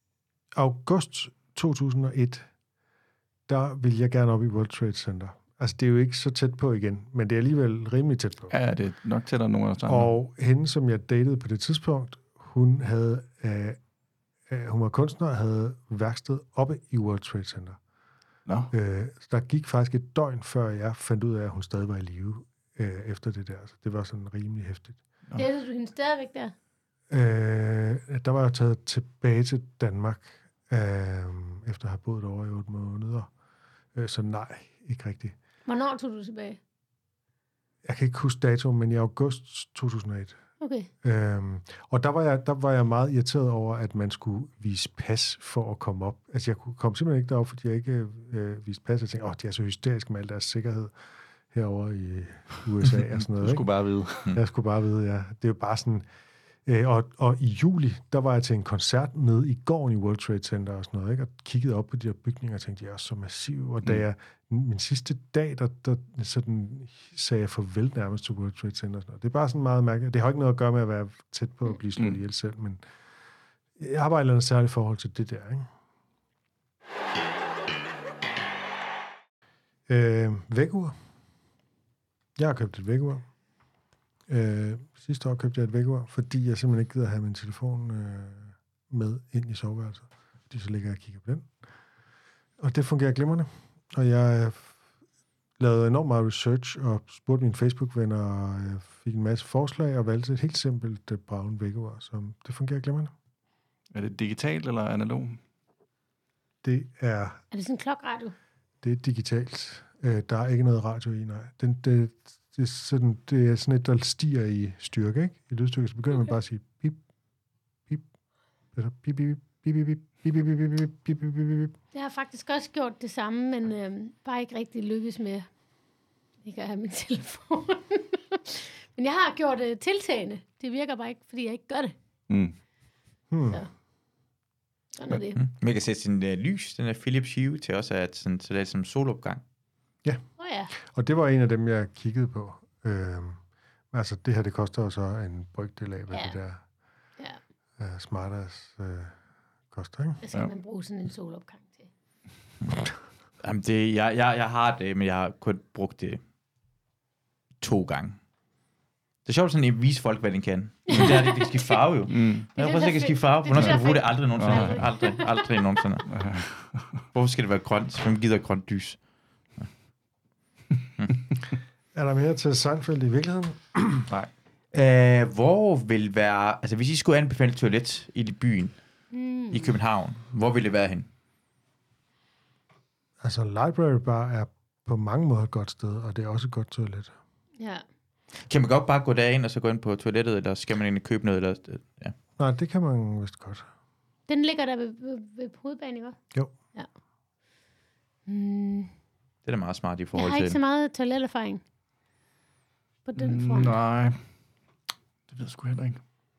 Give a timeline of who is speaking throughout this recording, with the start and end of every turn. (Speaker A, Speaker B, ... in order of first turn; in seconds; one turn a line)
Speaker A: 0.6-2.5
Speaker A: 3.5-8.5
Speaker B: 8.5-10.1
Speaker A: 9.9-13.8
Speaker A: 14.5-17.8
Speaker B: 18.4-18.7
Speaker A: 18.7-25.0
Speaker C: 25.4-26.5
Speaker A: 27.1-33.3
Speaker A: 33.9-35.3
Speaker C: 35.6-36.6
Speaker A: 37.8-40.4
Speaker C: 40.6-40.9
Speaker A: 41.0-50.9
Speaker A: 51.5-53.7
Speaker B: 53.4-54.3
Speaker A: 54.3-56.1
Speaker A: 56.6-72.8
Speaker A: 73.8-75.7
Speaker A: 79.9-81.0
Speaker A: 82.4-83.3
Speaker A: 84.3-91.5
Speaker A: 92.6-94.8
Speaker A: 95.6-103.1
Speaker B: 103.9-105.4
Speaker A: 106.6-107.4
Speaker C: 107.5-108.3
Speaker A: 108.8-117.0
Speaker A: 118.7-121.7
Speaker C: 121.9-125.5
Speaker C: 126.4-131.9
Speaker B: 132.3-132.6
Speaker A: 133.3-133.6
Speaker C: 134.9-135.4
Speaker D: 135.3-139.4
Speaker A: 140.0-146.6
Speaker C: 140.4-140.7
Speaker C: 146.1-146.4
Speaker A: 147.8-150.2
Speaker C: 150.2-151.9
Speaker D: 153.4-156.2
Speaker D: 157.6-158.2
Speaker D: 159.2-166.1
Speaker C: 160.9-165.6
Speaker B: 162.1-162.4
Speaker B: 163.6-164.8
Speaker B: 166.1-167.0
Speaker D: 167.1-169.1
Speaker A: 171.9-174.1
Speaker D: 174.7-181.1
Speaker C: 179.1-179.7
Speaker A: 183.2-187.1
Speaker C: 187.6-187.8
Speaker D: 188.5-192.1
Speaker A: 192.4-193.7
Speaker C: 194.3-196.2
Speaker C: 198.3-198.9
Speaker D: 199.4-200.6
Speaker C: 200.1-201.6
Speaker C: 203.1-203.8
Speaker B: 203.2-204.3
Speaker B: 205.3-206.0